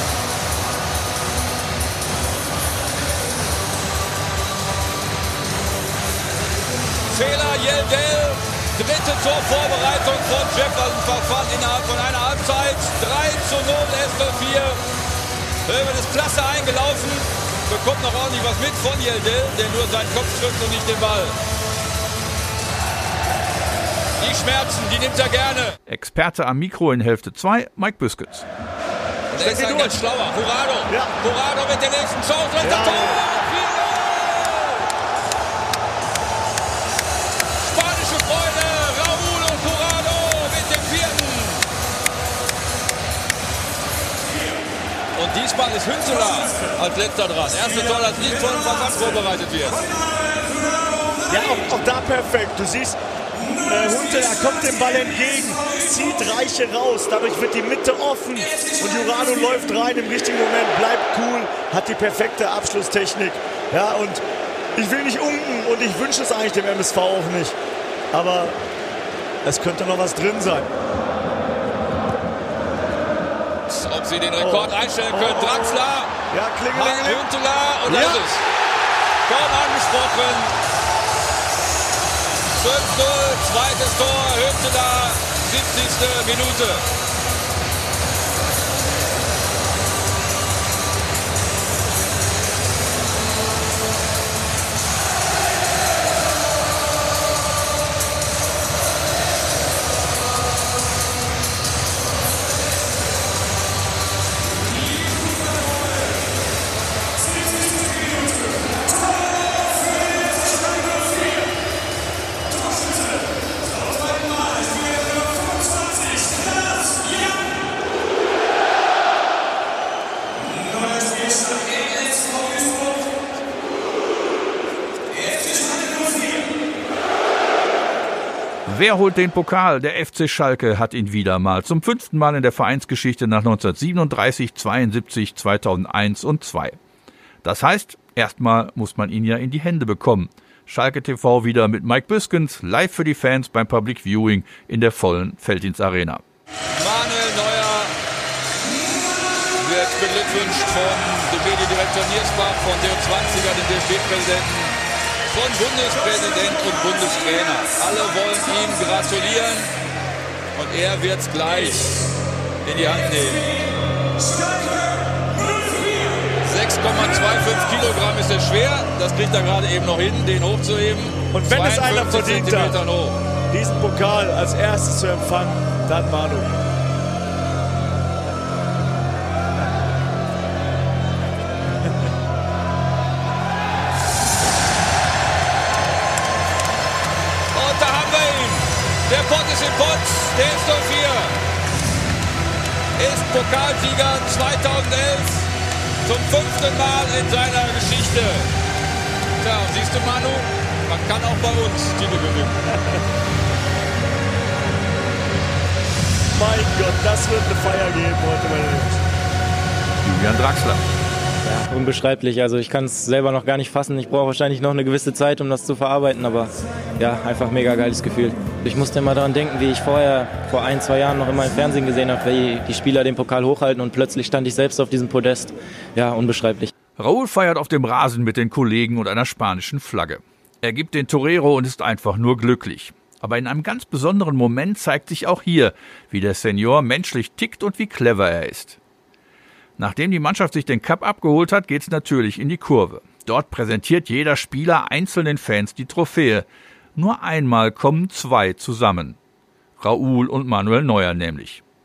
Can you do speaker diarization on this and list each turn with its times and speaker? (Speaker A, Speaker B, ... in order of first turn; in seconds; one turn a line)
Speaker A: 7.0-14.8
Speaker A: 15.7-21.4
Speaker A: 24.2-25.8
Speaker B: 25.9-28.4
Speaker A: 29.3-34.9
Speaker C: 29.4-30.0
Speaker C: 30.9-31.1
Speaker C: 32.6-33.2
Speaker A: 37.6-41.7
Speaker A: 45.1-49.8
Speaker C: 51.3-53.0
Speaker C: 53.6-64.2
Speaker C: 64.8-67.6
Speaker C: 68.1-68.5
Speaker C: 69.4-70.7
Speaker A: 73.7-76.1
Speaker C: 74.4-77.2
Speaker A: 76.7-78.4
Speaker C: 77.8-78.3
Speaker A: 79.3-80.5
Speaker A: 82.5-86.8
Speaker B: 128.6-136.8
Speaker B: 137.4-146.2
Speaker A: 146.7-147.9
Speaker A: 149.6-159.7
Speaker A: 160.5-161.9
Speaker A: 162.6-163.5
Speaker A: 166.4-173.2
Speaker C: 171.3-172.8
Speaker C: 173.5-176.5
Speaker A: 187.5-191.3
Speaker A: 193.0-195.5
Speaker A: 196.0-198.5
Speaker A: 199.4-202.6
Speaker C: 206.3-209.0
Speaker B: 210.0-210.8
Speaker D: 211.4-226.7
Speaker B: 227.0-238.8
Speaker B: 239.8-249.2
Speaker B: 249.8-251.6